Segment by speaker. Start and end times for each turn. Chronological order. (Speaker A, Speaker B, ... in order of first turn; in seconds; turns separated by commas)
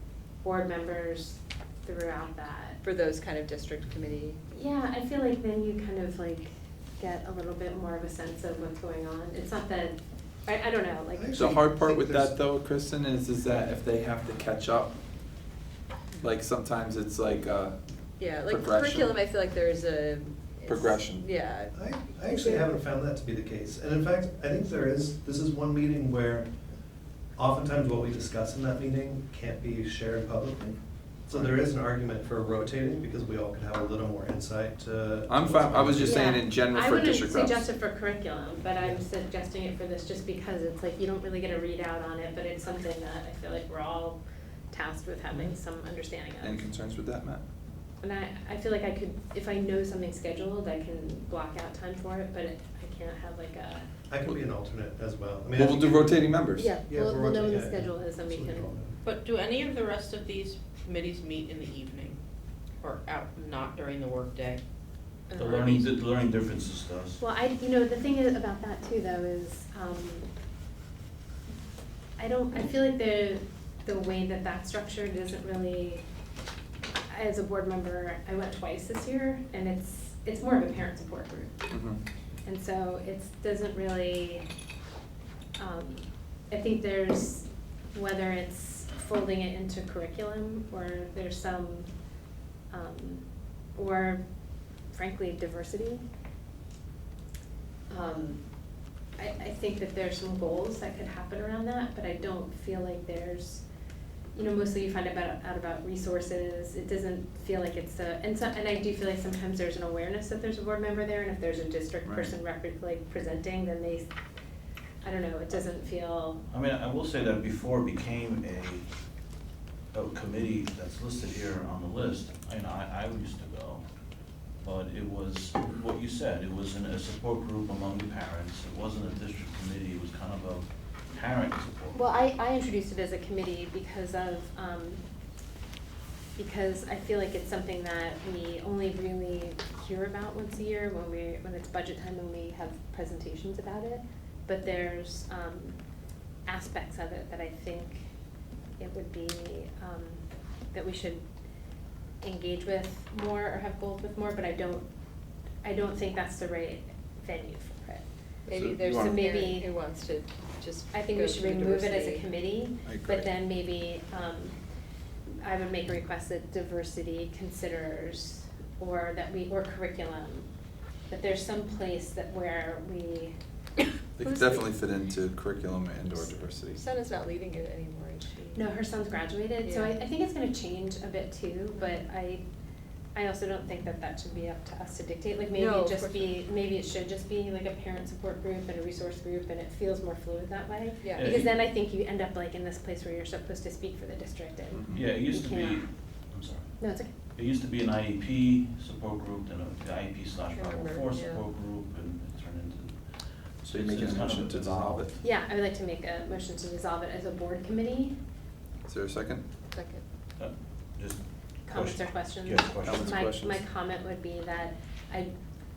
Speaker A: 0.4-2.8, Speaker B: 2.8-4.4, Speaker A: 4.5-11.3, Speaker C: 11.2-12.3, Speaker D: 11.3-15.0, Speaker D: 16.2-19.2, Speaker B: 18.2-22.7, Speaker D: 20.6-21.3, Speaker C: 21.7-26.5, Speaker C: 27.4-36.3, Speaker D: 31.3-31.6, Speaker D: 35.3-37.7, Speaker A: 36.0-44.2, Speaker A: 44.7-46.6, Speaker D: 46.4-47.4, Speaker A: 48.0-53.9, Speaker C: 54.1-59.0, Speaker D: 55.5-56.7, Speaker B: 56.6-56.9, Speaker A: 56.8-58.7, Speaker E: 59.0-62.2, Speaker E: 62.8-64.6, Speaker B: 65.3-65.6, Speaker F: 65.3-67.2, Speaker E: 65.4-65.9, Speaker A: 67.2-70.3, Speaker A: 72.2-76.0, Speaker A: 77.1-81.7, Speaker D: 81.7-82.0, Speaker A: 82.5-84.5, Speaker A: 85.6-91.9, Speaker A: 92.7-94.2, Speaker A: 94.9-96.0, Speaker A: 97.9-98.4, Speaker A: 99.2-103.7, Speaker A: 104.3-114.1, Speaker A: 115.0-116.4, Speaker F: 116.5-118.9, Speaker F: 119.9-123.9, Speaker F: 124.6-132.0, Speaker A: 131.9-135.0, Speaker A: 136.4-145.8, Speaker A: 146.5-148.1, Speaker A: 148.8-151.3, Speaker A: 152.2-154.9, Speaker A: 155.6-158.0, Speaker B: 158.5-162.3, Speaker D: 158.5-159.3, Speaker A: 159.0-159.7, Speaker A: 160.9-164.6, Speaker D: 162.8-163.3, Speaker A: 165.4-170.5, Speaker A: 171.1-173.4, Speaker D: 174.2-176.8, Speaker B: 174.2-174.6, Speaker B: 176.2-178.7, Speaker A: 178.6-182.4, Speaker B: 179.6-180.0, Speaker A: 183.2-195.8, Speaker B: 185.6-186.3, Speaker B: 191.0-191.3, Speaker F: 191.1-191.5, Speaker D: 194.7-195.1, Speaker F: 194.9-205.1, Speaker A: 196.8-197.1, Speaker B: 200.5-201.4, Speaker D: 203.6-205.2, Speaker A: 205.2-208.2, Speaker D: 208.9-209.4, Speaker B: 209.7-210.0, Speaker F: 210.4-213.2, Speaker A: 211.7-215.3, Speaker D: 212.8-213.7